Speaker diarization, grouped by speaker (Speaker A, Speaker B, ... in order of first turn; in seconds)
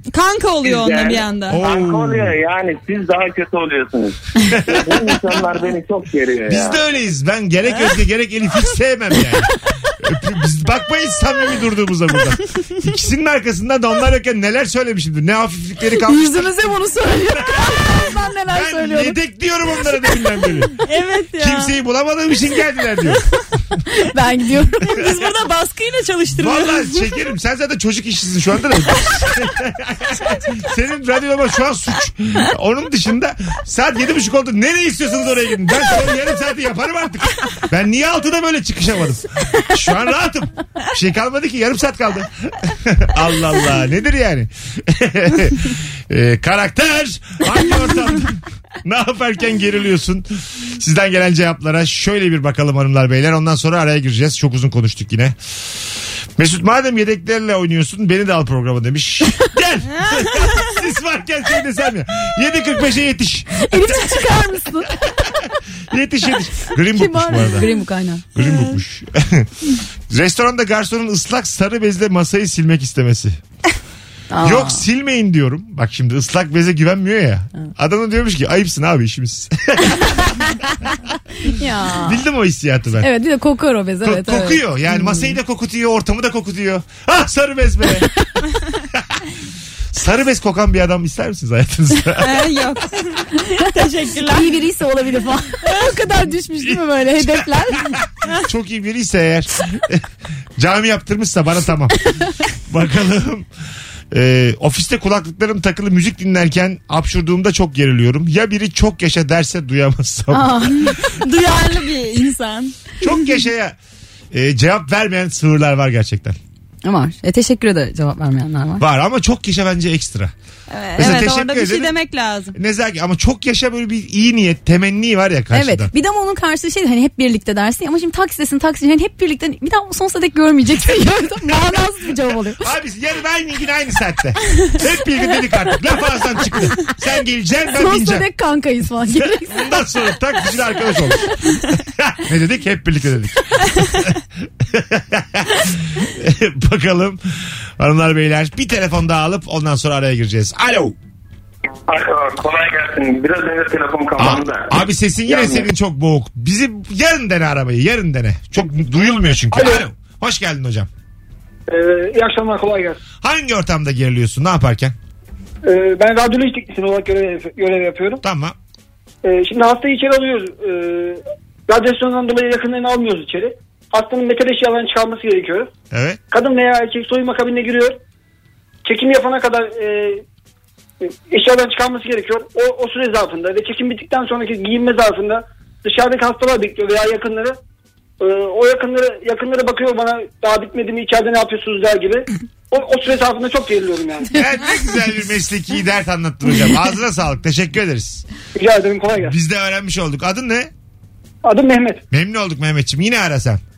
Speaker A: 0.1-1.6, 20.8-21.8, 24.8-27.1, 60.0-60.5, 68.4-68.7, 92.2-94.5, 111.0-112.7, 120.7-122.5
Speaker B: 0.6-6.8, 151.9-155.7
Speaker C: 1.5-2.4, 4.5-5.2, 6.5-16.6, 17.2-20.7, 21.4-23.2, 26.3-55.4, 56.4-64.4, 65.9-67.7, 68.3-69.5, 70.1-73.4, 74.4-80.5, 82.0-83.1, 84.0-88.1, 88.9-89.2, 89.9-92.4, 96.6-100.0, 100.6-102.0, 102.7-103.5, 104.1-111.0, 113.0-113.8, 114.3-116.4, 118.8-120.3, 121.0-121.9, 122.5-125.9, 132.6-138.3, 139.4-147.2, 147.8-150.9, 154.2-160.9, 163.2-164.9, 168.2-168.6, 175.9-176.2, 194.3-198.2, 199.2-200.7, 202.1-203.6
Speaker D: 16.0-19.2, 23.9-25.0, 63.6-65.2, 66.9-68.2, 74.3-74.8, 81.4-82.2, 83.0-85.3, 94.3-98.0, 110.3-110.9, 116.8-118.8, 125.5-132.6, 137.8-139.8
Speaker E: 159.5-159.8, 161.7-163.0, 165.6-168.2, 169.2-175.7, 176.3-178.0, 178.8-180.2, 181.0-187.6, 188.2-194.3, 198.5-199.3, 201.4-202.0